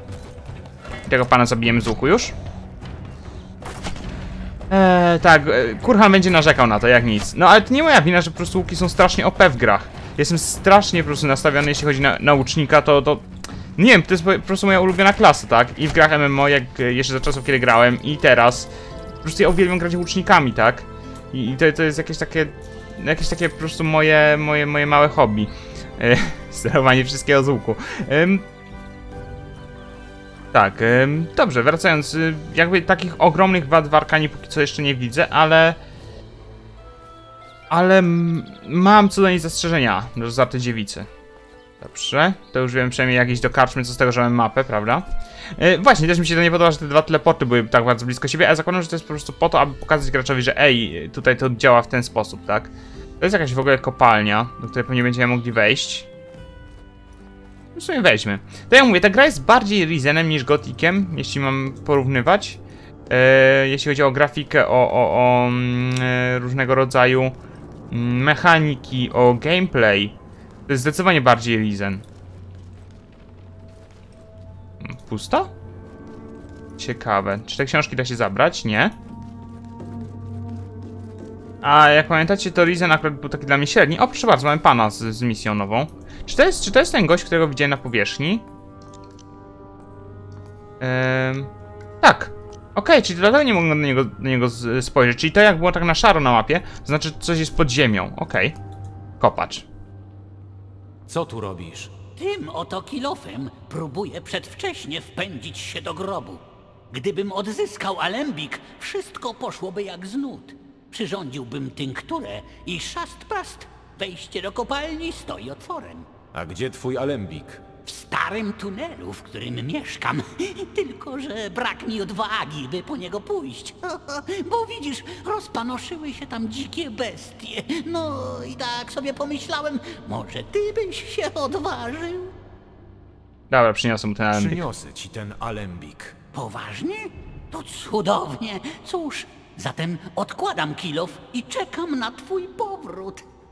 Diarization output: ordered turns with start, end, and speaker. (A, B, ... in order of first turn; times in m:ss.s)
0:01.1-0:02.3 A
0:04.7-0:18.7 A
0:19.2-0:28.4 A
0:30.5-0:35.8 A
0:37.7-0:41.1 A
0:41.8-0:45.0 A
0:45.6-0:56.1 A
0:57.7-1:07.4 A
1:07.9-1:10.2 A
1:10.7-1:12.0 A
1:14.8-1:15.5 A
1:16.8-1:18.9 A
1:21.6-1:28.4 A
1:30.8-1:38.6 A
1:39.2-1:39.7 A
1:41.0-1:41.9 B
1:42.2-1:56.1 C
1:56.3-1:57.6 B
1:57.8-2:12.3 C
2:13.5-2:14.6 A
2:14.3-2:16.2 B
2:16.3-2:23.2 C